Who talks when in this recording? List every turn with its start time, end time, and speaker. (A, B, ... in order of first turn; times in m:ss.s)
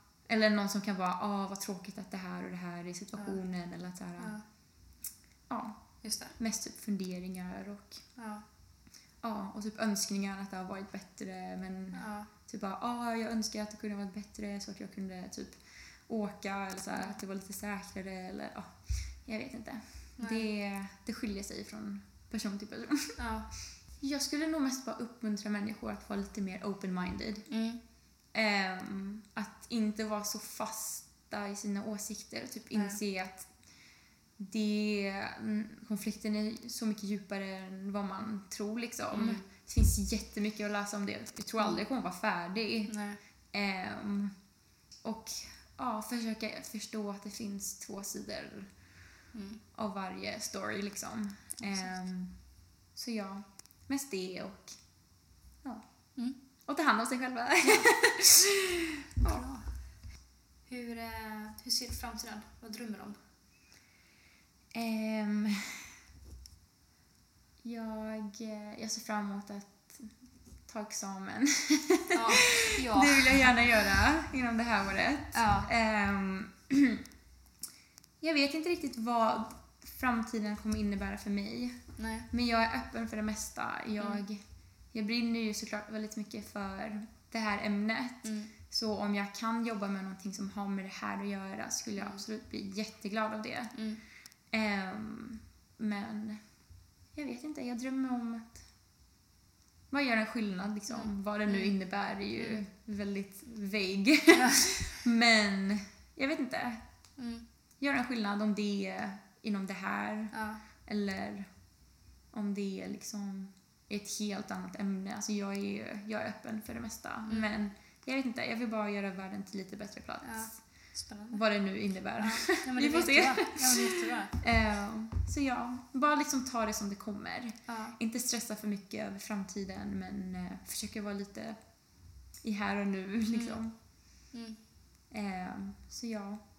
0:00.3-0:04.4 A
0:05.5-0:05.8 A
0:06.0-0:06.4 B
0:06.4-0:08.0 A
0:08.2-0:08.4 B
0:09.2-0:23.2 A
0:11.9-0:12.3 B
0:20.2-0:20.4 B
0:23.2-0:23.5 B
0:24.0-0:27.5 A
0:27.5-0:27.8 B
0:28.3-0:33.5 A
0:34.4-0:42.9 A
0:39.1-0:39.5 B
0:42.9-0:43.2 B
0:43.5-0:44.3 A
0:45.0-0:48.7 A
0:49.3-0:49.6 B
0:49.7-0:52.3 A
0:51.6-0:51.9 B
0:53.0-0:54.7 A
0:56.7-0:59.4 A
0:57.6-0:57.9 B
0:59.2-0:59.7 B
1:00.7-1:03.2 B
1:04.7-1:05.9 A
1:07.6-1:10.1 A
1:10.7-1:17.0 A
1:12.1-1:13.5 B
1:15.3-1:15.7 B
1:18.2-1:21.8 A
1:22.0-1:22.3 B
1:22.3-1:24.4 A
1:24.9-1:33.7 A
1:28.2-1:28.5 B
1:32.0-1:32.2 B
1:33.7-1:34.0 B
1:34.5-1:36.4 A
1:37.2-1:38.6 A
1:39.9-1:46.8 A
1:40.9-1:41.7 B
1:44.3-1:44.9 B
1:47.2-1:47.4 B
1:47.8-1:51.5 A
1:50.3-1:50.6 B
1:52.3-2:00.6 A
1:57.3-1:57.6 B
2:00.2-2:01.4 B
2:01.3-2:11.6 A
2:02.2-2:04.4 B
2:07.7-2:08.0 B
2:12.4-2:13.7 A
2:13.3-2:13.6 B
2:14.3-2:14.6 B
2:15.1-2:16.4 A